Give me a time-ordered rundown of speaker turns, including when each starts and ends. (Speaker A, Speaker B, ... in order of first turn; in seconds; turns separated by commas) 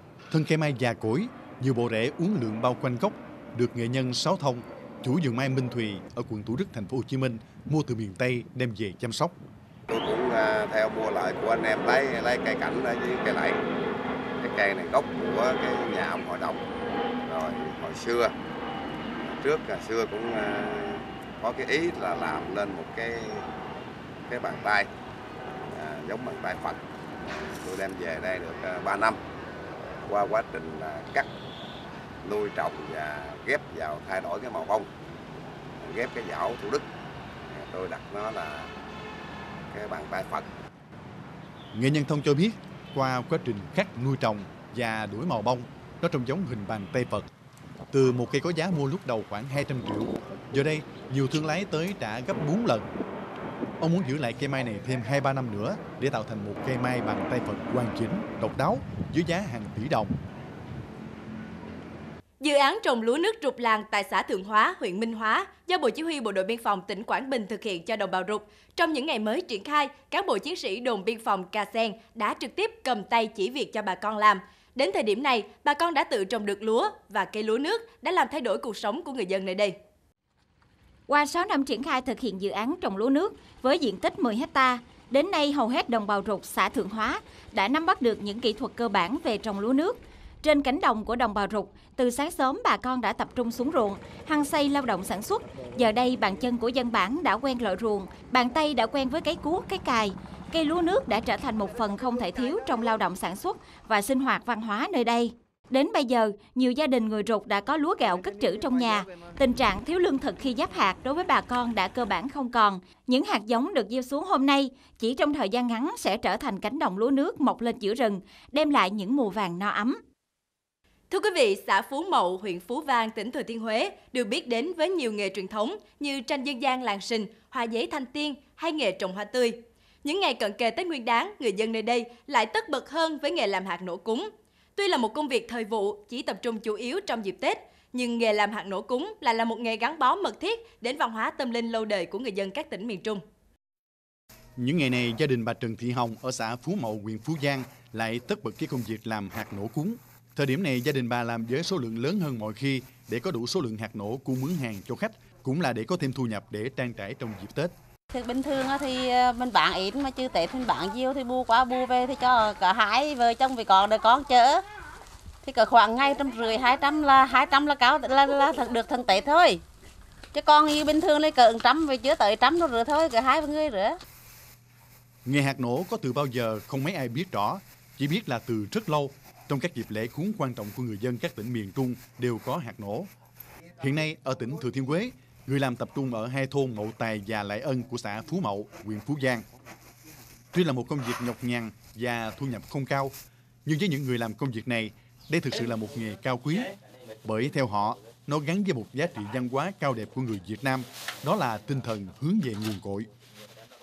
Speaker A: 0.3-9.4, Speaker B: 9.9-13.6, Speaker B: 14.4-16.6, Speaker B: 17.2-18.3, Speaker B: 19.3-23.4, Speaker B: 24.3-24.9, Speaker B: 25.7-29.2, Speaker B: 30.0-31.3, Speaker B: 32.2-34.9, Speaker B: 35.8-36.9, Speaker B: 37.5-38.7, Speaker B: 39.7-40.5, Speaker A: 41.7-47.3, Speaker A: 47.9-52.9, Speaker A: 53.8-60.2, Speaker C: 62.4-79.8, Speaker D: 81.1-120.0, Speaker C: 121.1-143.2, Speaker A: 144.6-157.7, Speaker E: 158.1-164.6, Speaker E: 165.4-169.6, Speaker E: 170.3-174.0, Speaker A: 175.3-183.1, Speaker A: 183.8-189.4, Speaker A: 190.5-193.1, Speaker A: 193.7-196.7, Speaker A: 197.2-203.1